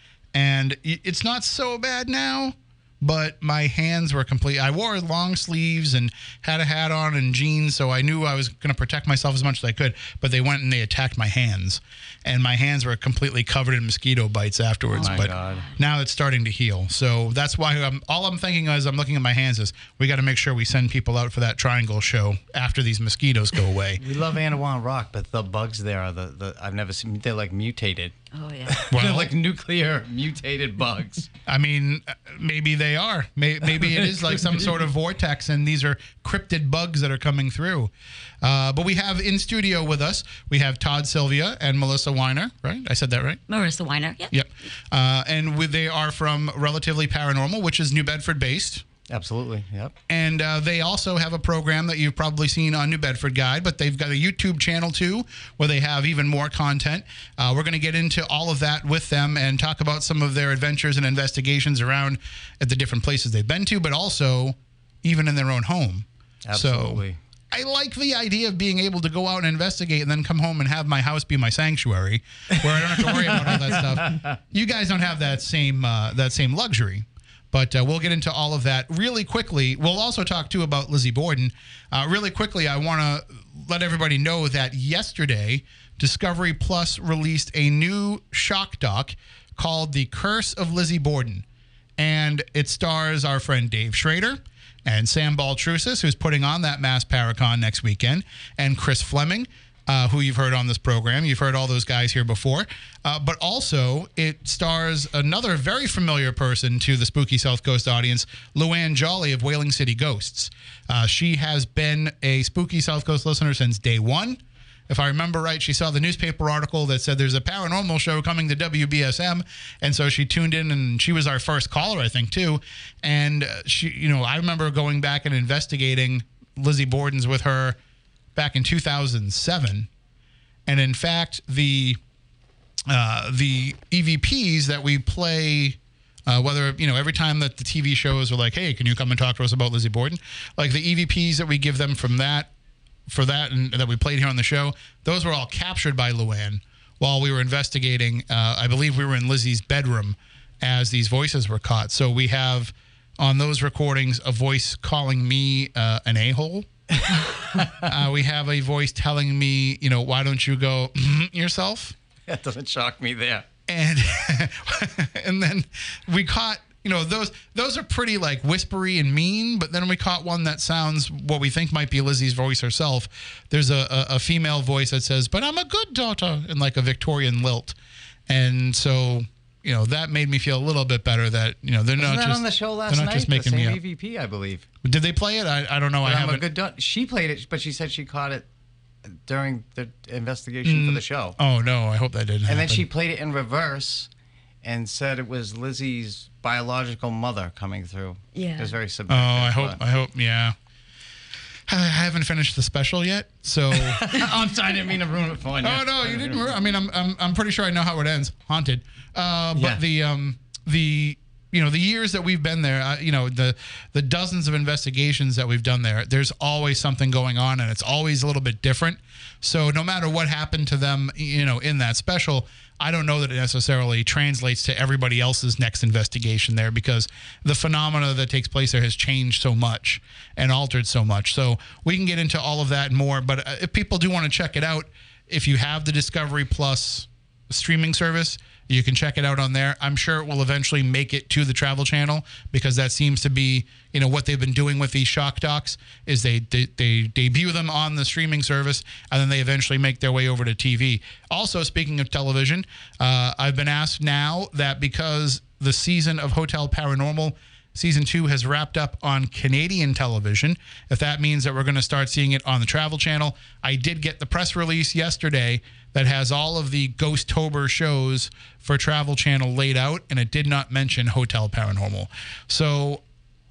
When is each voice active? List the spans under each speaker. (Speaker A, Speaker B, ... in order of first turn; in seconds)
Speaker A: 0.3-24.0, 28.9-29.3, 31.5-37.9, 38.4-43.4, 44.3-48.8, 50.1-91.5, 92.0-127.8, 128.3-129.9, 130.7-132.0, 132.9-142.5, 143.1-156.7, 157.7-161.9, 163.7-177.8, 178.3-183.8, 184.8-186.4, 190.7-192.8, 199.1-200.6, 201.7-204.1, 205.6-273.0
Speaker B: 15.0-15.7, 24.0-28.2, 28.7-31.3, 34.0-34.7, 49.1-50.0, 66.5-67.2, 73.1-74.3, 156.9-157.9, 162.3-163.5, 182.0-184.7, 186.0-188.5, 189.1-191.4, 192.5-194.1, 194.6-199.8, 203.7-206.4, 209.5-209.8
Speaker C: 15.0-15.8, 28.3-28.8, 43.5-44.4, 198.3-198.7